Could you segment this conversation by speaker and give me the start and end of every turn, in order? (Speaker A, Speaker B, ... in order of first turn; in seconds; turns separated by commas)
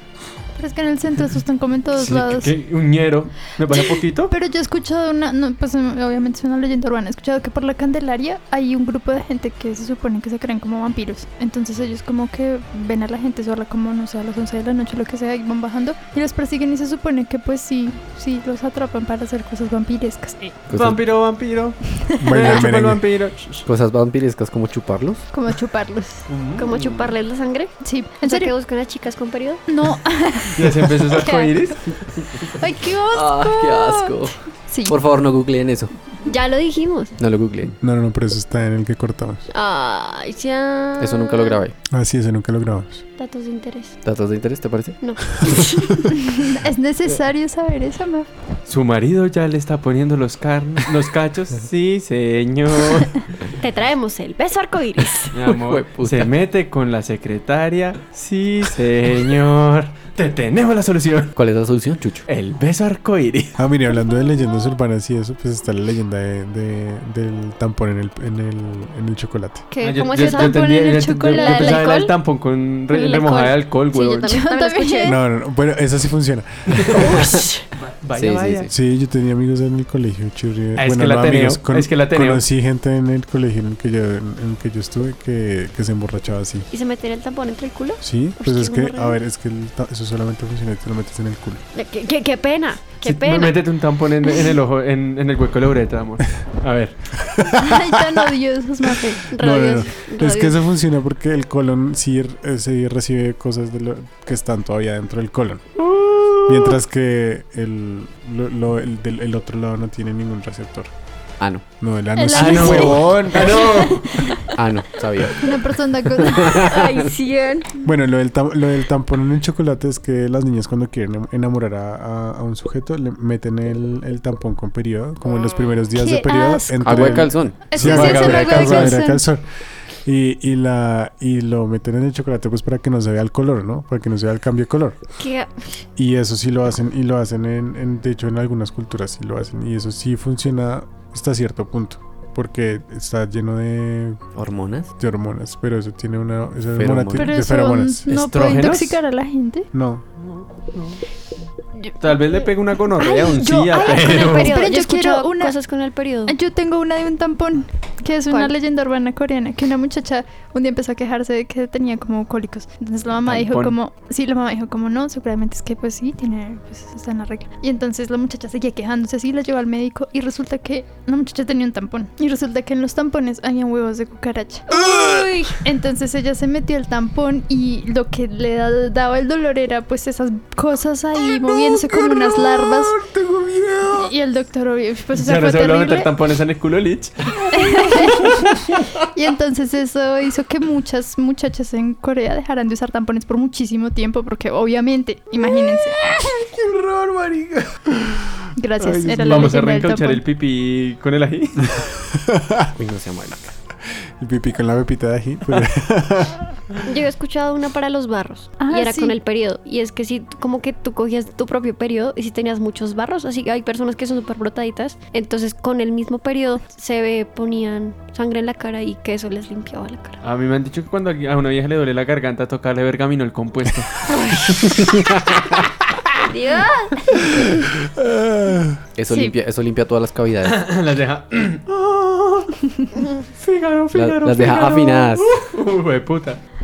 Speaker A: 0.6-2.5, Speaker B: 1.9-4.3, Speaker A: 4.3-20.6, Speaker C: 20.7-21.0, Speaker B: 20.7-23.6, Speaker D: 22.2-23.0, Speaker C: 23.6-25.2, Speaker A: 25.3-26.2, Speaker B: 26.3-27.1, Speaker E: 26.6-29.6, Speaker A: 27.8-28.5, Speaker A: 29.7-31.5, Speaker B: 30.6-32.2, Speaker A: 32.5-34.1, Speaker C: 33.1-35.9, Speaker A: 34.7-35.0, Speaker E: 36.2-37.1, Speaker C: 37.2-37.7, Speaker D: 37.8-39.5, Speaker E: 39.5-41.6, Speaker C: 41.0-41.7, Speaker D: 41.9-43.0, Speaker E: 43.2-44.0, Speaker C: 44.0-45.6, Speaker E: 45.0-46.0, Speaker A: 46.1-48.3, Speaker B: 48.7-53.3, Speaker E: 53.6-55.4, Speaker B: 55.3-61.3, Speaker C: 55.5-56.3, Speaker C: 61.3-62.2, Speaker B: 62.3-63.6, Speaker D: 63.6-69.7, Speaker E: 69.7-72.1, Speaker A: 69.8-72.0, Speaker B: 69.8-74.3, Speaker E: 72.9-75.2, Speaker A: 74.1-75.2, Speaker D: 75.0-77.2, Speaker B: 76.7-78.7, Speaker E: 76.9-77.7, Speaker C: 78.2-78.7, Speaker D: 78.7-86.7, Speaker B: 80.8-82.4, Speaker E: 86.7-89.2, Speaker D: 88.0-91.6, Speaker E: 91.7-93.6, Speaker B: 93.0-97.1, Speaker D: 97.2-97.8, Speaker A: 97.6-99.2, Speaker E: 99.3-100.5, Speaker D: 99.3-105.8, Speaker B: 105.8-106.8, Speaker D: 106.5-110.9, Speaker C: 111.4-111.6, Speaker D: 111.8-113.7, Speaker A: 112.2-114.5, Speaker B: 112.3-114.4, Speaker C: 114.5-115.6, Speaker A: 115.4-116.7, Speaker C: 116.2-117.1, Speaker E: 116.5-117.7, Speaker D: 117.8-129.4, Speaker A: 125.9-129.2, Speaker C: 126.8-127.6, Speaker B: 127.7-129.0, Speaker D: 130.0-135.0, Speaker E: 135.2-135.6, Speaker D: 136.0-144.2, Speaker C: 144.3-144.9, Speaker D: 145.0-148.0, Speaker C: 146.7-147.3, Speaker A: 147.2-149.7, Speaker B: 148.1-149.0, Speaker D: 149.7-150.0, Speaker B: 150.2-151.0, Speaker B: 152.0-154.6, Speaker A: 153.1-155.6, Speaker E: 153.2-156.3, Speaker A: 156.2-183.0, Speaker B: 163.2-163.7, Speaker E: 174.7-175.6, Speaker B: 183.3-183.7, Speaker A: 183.9-186.1, Speaker B: 185.1-188.8, Speaker A: 187.5-196.0, Speaker B: 196.1-197.8, Speaker A: 198.5-200.2, Speaker D: 198.8-199.5, Speaker B: 199.2-201.9, Speaker D: 201.8-202.7, Speaker C: 202.8-203.5, Speaker D: 204.2-206.6, Speaker E: 206.8-220.2, Speaker A: 208.6-209.2, Speaker B: 220.2-224.1, Speaker E: 224.1-224.9, Speaker B: 224.6-225.1, Speaker E: 226.2-227.1, Speaker D: 227.8-228.8, Speaker C: 228.9-230.6, Speaker A: 229.1-229.3, Speaker B: 230.4-232.8, Speaker E: 232.9-233.2, Speaker B: 233.3-236.4, Speaker C: 233.9-235.3